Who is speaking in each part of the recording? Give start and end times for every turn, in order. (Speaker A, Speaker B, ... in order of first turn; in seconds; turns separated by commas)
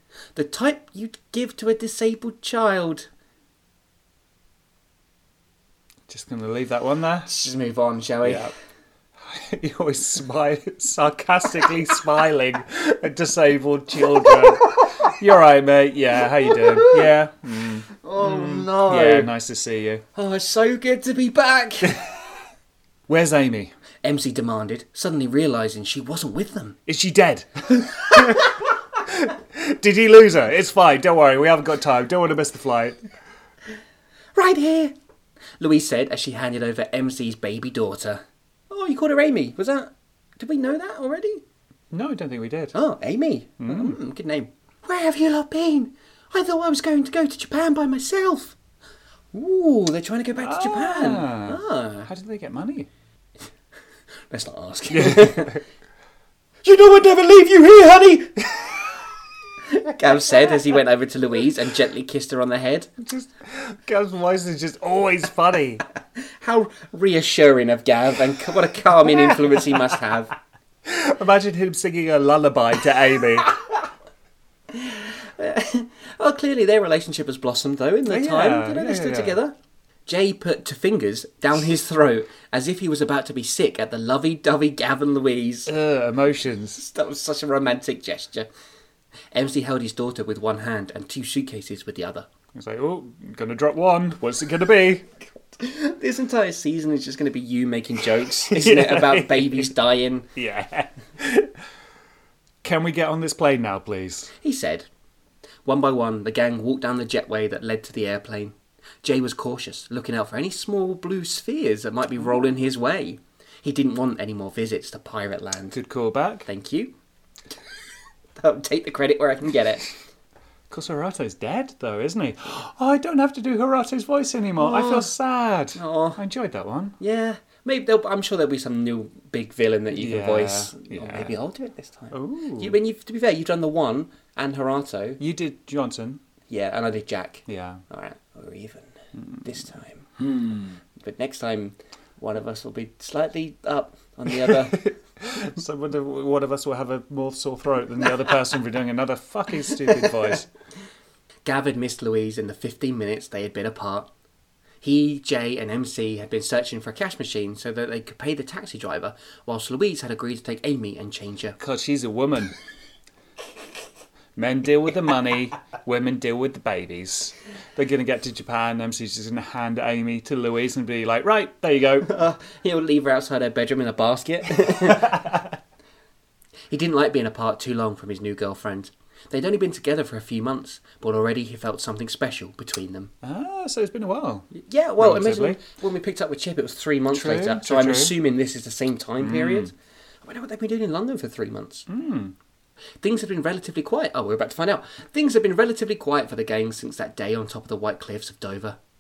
Speaker A: 0.3-3.1, Speaker B: 6.1-7.3, Speaker A: 7.3-8.5, Speaker B: 8.2-8.5, Speaker B: 9.2-20.0, Speaker A: 16.5-17.1, Speaker A: 18.0-19.3, Speaker A: 20.1-22.0, Speaker B: 23.1-23.7, Speaker A: 24.0-26.8, Speaker B: 26.9-33.0, Speaker A: 34.4-34.9, Speaker A: 35.6-41.4, Speaker B: 41.9-42.8, Speaker A: 42.7-48.6, Speaker B: 43.6-44.0, Speaker A: 49.3-52.1, Speaker B: 50.4-52.9, Speaker A: 54.3-55.6, Speaker B: 54.9-55.6, Speaker A: 56.6-58.8, Speaker A: 59.7-62.9, Speaker B: 63.0-65.8, Speaker A: 66.4-70.3, Speaker B: 69.3-69.6, Speaker B: 70.8-73.6, Speaker A: 74.7-85.7, Speaker B: 78.1-79.4, Speaker B: 85.7-86.8, Speaker A: 86.8-88.5, Speaker A: 89.3-92.3, Speaker B: 92.5-95.2, Speaker A: 95.6-100.3, Speaker B: 98.4-99.7, Speaker B: 100.3-101.5, Speaker B: 102.6-104.3, Speaker A: 104.4-104.9, Speaker A: 105.7-115.8, Speaker B: 115.7-116.5, Speaker A: 116.5-116.9, Speaker A: 118.4-120.0, Speaker B: 120.7-127.0, Speaker A: 124.6-125.1, Speaker A: 125.8-126.2, Speaker A: 127.0-135.2, Speaker B: 129.9-131.3, Speaker B: 132.1-132.8, Speaker B: 135.2-136.2, Speaker A: 136.5-140.2, Speaker B: 137.5-137.8, Speaker B: 140.2-140.8, Speaker A: 141.0-144.9, Speaker B: 145.2-150.5, Speaker A: 151.4-154.1, Speaker A: 154.8-161.6, Speaker B: 161.6-162.5, Speaker B: 164.4-172.1, Speaker A: 172.1-175.4, Speaker A: 176.7-183.1, Speaker B: 183.2-185.6, Speaker A: 184.5-191.9, Speaker B: 187.1-188.2, Speaker B: 189.2-189.7, Speaker B: 191.9-192.4, Speaker A: 193.0-198.8